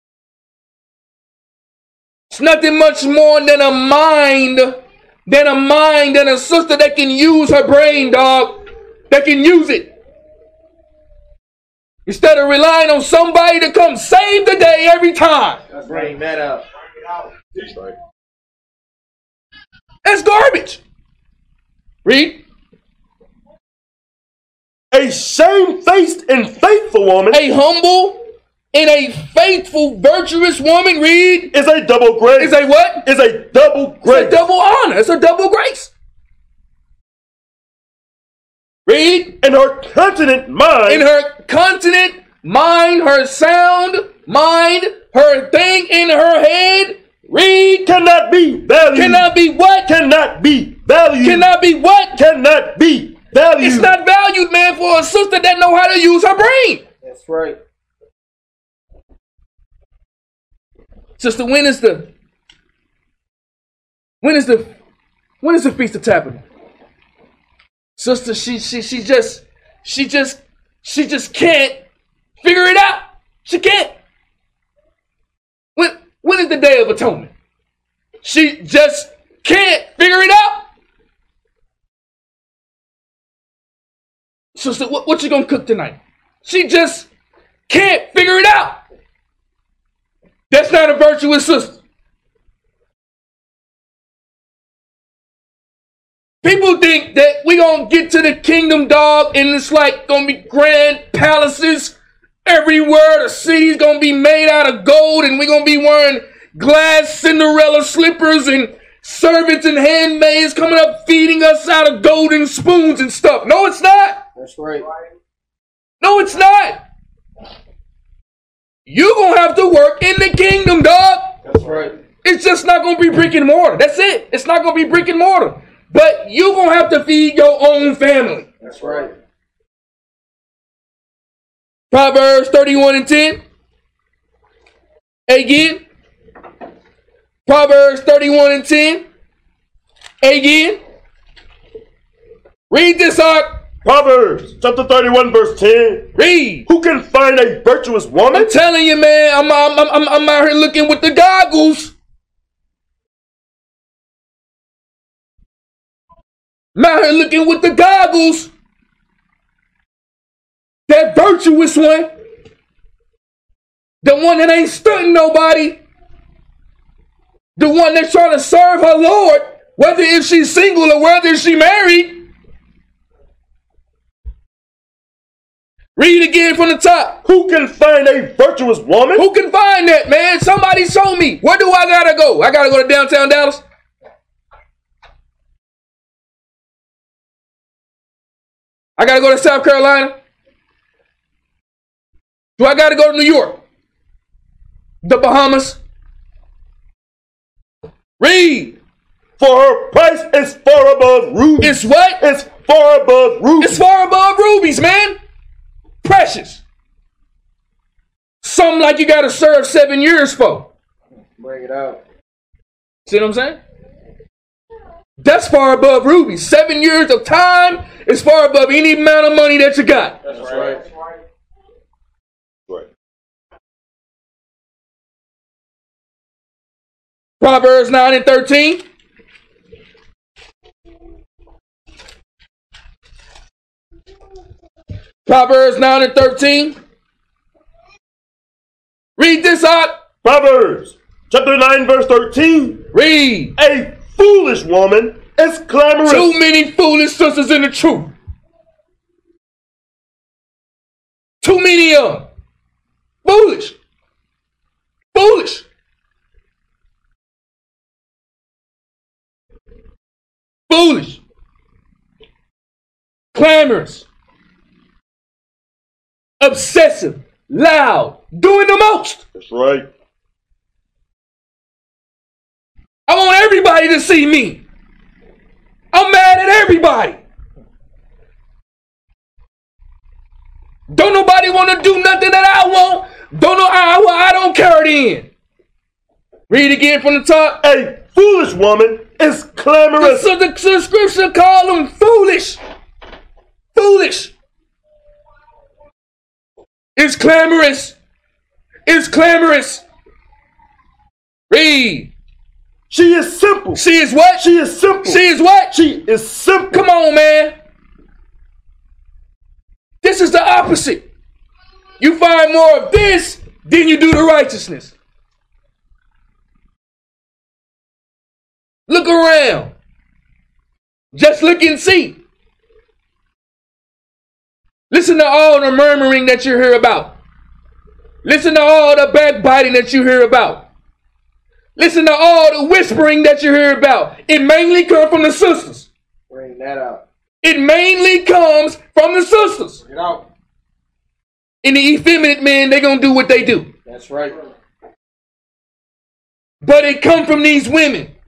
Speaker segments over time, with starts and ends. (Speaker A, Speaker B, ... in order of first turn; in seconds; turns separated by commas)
Speaker A: 2.3-9.9, Speaker A: 12.1-15.6, Speaker B: 15.8-16.6, Speaker C: 17.5-17.9, Speaker A: 20.0-20.8, Speaker A: 22.0-22.4, Speaker C: 24.9-27.4, Speaker A: 27.3-31.5, Speaker C: 31.5-34.4, Speaker A: 32.4-33.0, Speaker A: 34.0-35.9, Speaker A: 38.9-39.4, Speaker C: 39.4-41.0, Speaker A: 40.9-47.9, Speaker C: 47.8-49.3, Speaker A: 48.9-49.9, Speaker C: 49.9-51.5, Speaker A: 51.2-52.2, Speaker C: 52.1-53.9, Speaker A: 53.6-56.8, Speaker B: 57.0-57.6, Speaker A: 61.2-62.1, Speaker A: 64.2-64.7, Speaker A: 65.4-66.4, Speaker A: 68.0-71.8, Speaker A: 72.4-73.9, Speaker A: 75.8-77.3, Speaker A: 78.2-80.7, Speaker A: 84.5-87.1, Speaker A: 87.7-88.8, Speaker A: 90.5-91.8, Speaker A: 96.4-114.2, Speaker B: 114.3-114.9, Speaker A: 116.0-116.8, Speaker A: 118.9-121.4, Speaker B: 121.5-122.0, Speaker A: 122.2-128.5, Speaker B: 128.6-129.1, Speaker A: 131.9-133.4, Speaker A: 135.3-135.8, Speaker A: 137.4-139.0, Speaker A: 140.2-140.8, Speaker A: 142.7-143.6, Speaker C: 143.8-146.1, Speaker A: 146.2-146.7, Speaker C: 146.7-148.5, Speaker A: 148.3-151.9, Speaker A: 156.7-158.5, Speaker A: 160.9-162.1, Speaker A: 164.0-165.8, Speaker A: 167.6-172.2, Speaker A: 175.9-177.2, Speaker C: 177.2-179.2, Speaker A: 179.2-183.6, Speaker A: 189.0-190.1, Speaker A: 192.6-193.6, Speaker A: 195.0-195.8, Speaker A: 198.2-198.8, Speaker C: 199.4-203.8, Speaker A: 201.6-202.2, Speaker A: 203.6-205.2, Speaker A: 206.0-206.6, Speaker A: 208.4-210.7, Speaker B: 211.4-212.0, Speaker A: 213.1-213.6, Speaker A: 215.2-220.2, Speaker B: 220.2-220.8, Speaker A: 227.4-228.8, Speaker A: 235.2-236.8, Speaker A: 239.2-239.9, Speaker C: 240.2-242.9, Speaker A: 242.9-243.5, Speaker C: 243.6-246.4, Speaker A: 246.0-248.1, Speaker A: 251.4-252.2, Speaker A: 253.2-253.8, Speaker A: 255.1-255.7, Speaker A: 260.7-261.2, Speaker A: 263.3-264.1, Speaker A: 266.4-269.2, Speaker C: 269.3-269.9, Speaker A: 273.1-274.6, Speaker A: 275.9-277.2, Speaker A: 280.9-285.3, Speaker A: 286.5-287.6, Speaker C: 287.6-290.3, Speaker A: 290.0-292.6, Speaker A: 293.7-294.3, Speaker A: 296.9-297.9, Speaker A: 298.9-299.8, Speaker A: 301.5-302.1, Speaker C: 302.9-303.8, Speaker A: 303.7-304.5, Speaker C: 304.4-306.8, Speaker A: 305.0-305.8, Speaker A: 306.7-307.5, Speaker A: 310.0-311.0, Speaker A: 312.0-314.9, Speaker A: 318.9-319.7, Speaker A: 321.1-322.2, Speaker A: 324.9-327.1, Speaker A: 328.2-330.6, Speaker A: 331.8-335.9, Speaker B: 336.3-337.0, Speaker A: 337.4-339.8, Speaker B: 339.9-340.2, Speaker A: 341.6-343.7, Speaker B: 343.9-344.4, Speaker A: 346.6-348.1